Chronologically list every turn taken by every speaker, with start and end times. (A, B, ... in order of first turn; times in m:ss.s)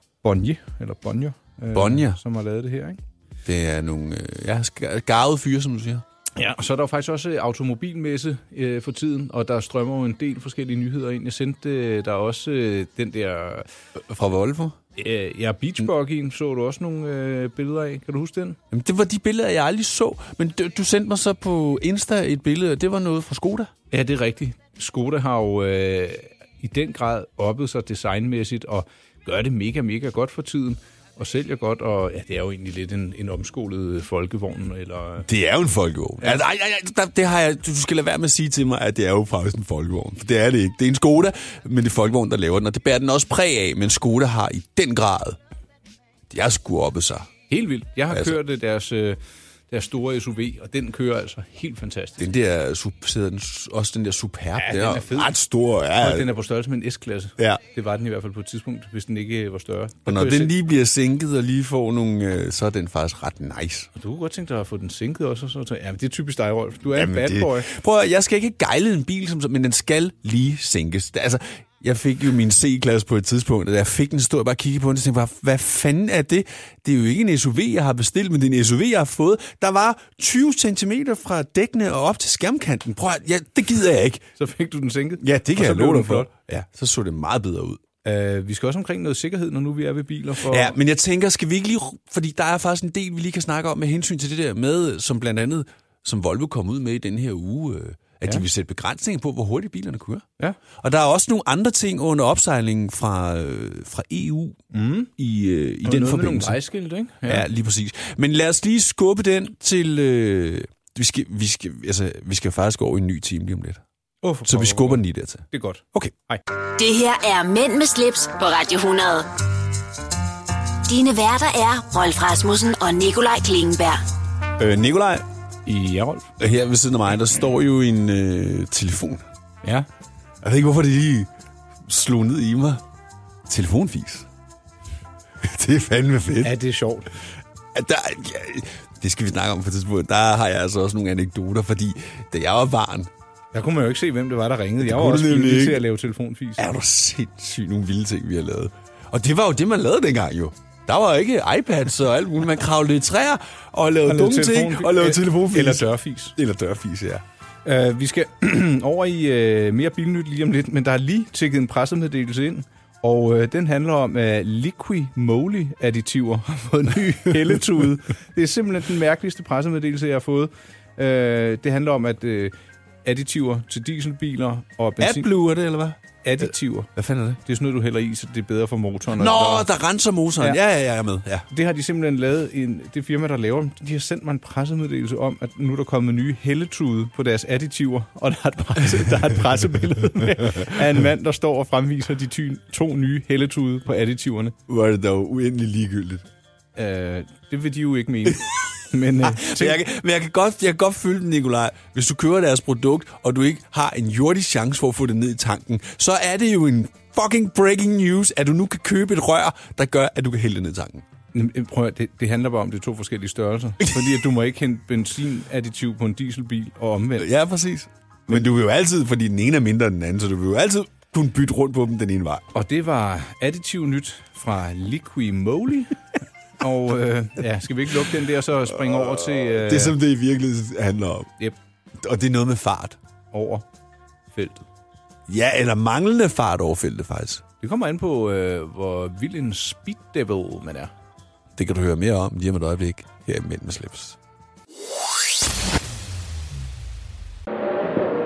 0:00.2-0:03.0 A
0:01.7-0:02.2 B
0:03.4-0:06.0 B
0:06.4-0:13.7 A
0:14.0-0:14.8 B
0:15.0-0:18.6 A
0:18.7-0:23.7 B
0:23.9-0:35.3 A
0:35.2-0:45.4 B
0:46.3-0:47.3 B
0:47.5-0:52.3 A
0:48.1-0:48.4 B
0:52.2-0:56.3 B
0:54.6-0:55.3 A
0:56.0-1:00.5 A
1:00.0-1:03.9 B
1:03.9-1:07.7 A
1:06.9-1:24.3 B
1:24.4-1:26.3 A
1:25.2-1:27.8 B
1:28.0-1:30.8 A
1:30.4-1:40.2 B
1:40.8-1:44.6 B
1:44.7-1:45.1 A
1:45.2-1:46.6 B
1:45.8-1:47.4 A
1:47.2-1:53.8 B
1:54.2-1:56.4 A
1:54.4-1:56.1 B
1:56.8-1:59.3 C
2:00.8-2:04.0 C
2:04.6-2:05.2 B
2:05.6-2:06.3 A
2:06.4-2:09.2 B
2:09.6-2:09.9 A
2:10.4-2:11.3 B
2:11.8-2:12.8 B
2:13.4-2:14.3 B
2:15.4-2:16.5 B
2:16.4-2:17.1 A
2:17.7-2:23.1 B
2:23.5-2:26.6 A
2:24.8-2:25.8 B
2:26.6-2:37.2 B
2:34.0-2:36.4 A
2:37.6-2:52.5 A
2:53.0-2:55.3 A
2:55.0-2:57.4 B
2:56.2-2:56.9 A
2:57.4-2:59.7 A
2:59.1-3:01.5 B
3:01.5-3:14.6 A
3:14.7-3:16.2 B
3:16.8-3:19.8 A
3:19.2-3:31.0 B
3:31.3-3:37.3 A
3:33.8-3:34.1 B
3:37.2-3:42.5 B
3:42.5-3:46.0 A
3:46.6-3:50.0 A
3:48.8-3:51.3 B
3:52.0-3:53.0 B
3:53.3-3:53.6 A
3:54.3-3:54.6 A
3:55.3-3:57.4 B
3:57.6-4:00.9 A
4:01.6-4:04.2 B